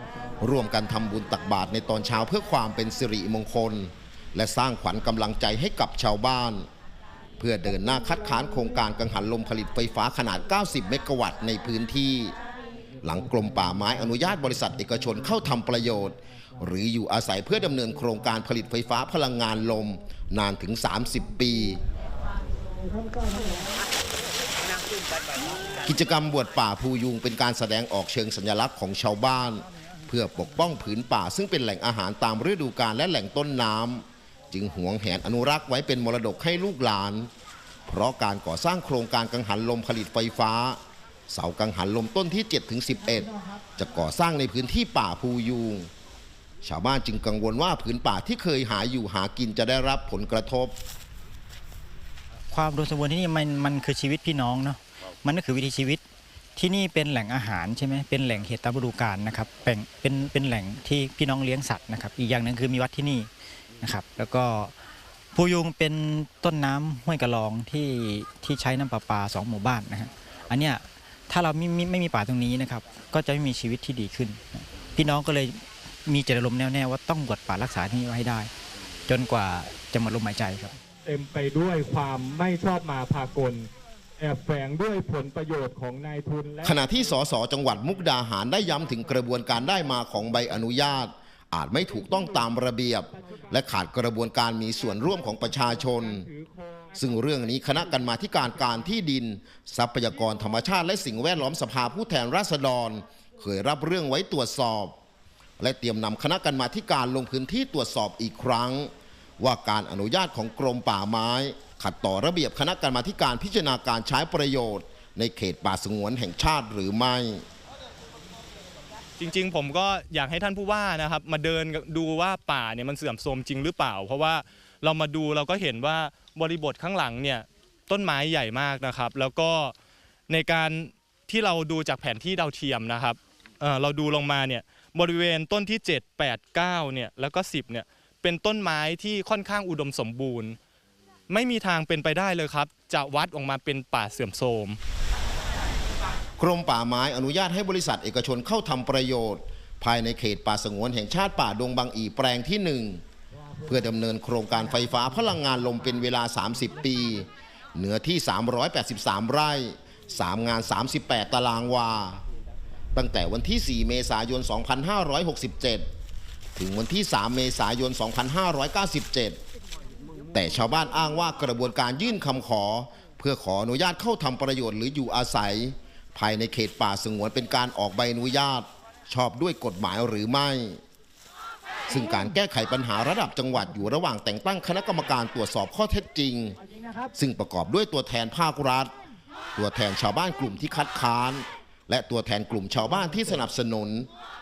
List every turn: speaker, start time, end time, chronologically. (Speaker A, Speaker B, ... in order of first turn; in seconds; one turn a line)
Speaker A: 0.4-6.7
Speaker A: 7.4-12.3
Speaker A: 13.0-21.8
Speaker A: 25.8-37.3
Speaker A: 37.9-40.8
Speaker A: 41.3-45.9
Speaker A: 46.6-50.7
Speaker B: 52.5-56.0
Speaker B: 56.6-63.3
Speaker B: 63.8-64.8
Speaker B: 65.3-78.5
Speaker B: 79.1-80.8
Speaker C: 81.0-83.7
Speaker C: 84.2-86.8
Speaker A: 86.6-96.2
Speaker C: 95.3-97.0
Speaker A: 97.0-105.0
Speaker A: 105.6-117.4
Speaker D: 119.2-129.7
Speaker D: 130.3-140.6
Speaker D: 141.3-144.8
Speaker A: 146.4-153.0
Speaker A: 153.7-162.2
Speaker A: 162.9-165.8
Speaker A: 166.6-169.4
Speaker A: 170.3-180.8
Speaker A: 181.9-186.6
Speaker A: 187.1-188.9
Speaker A: 189.6-194.1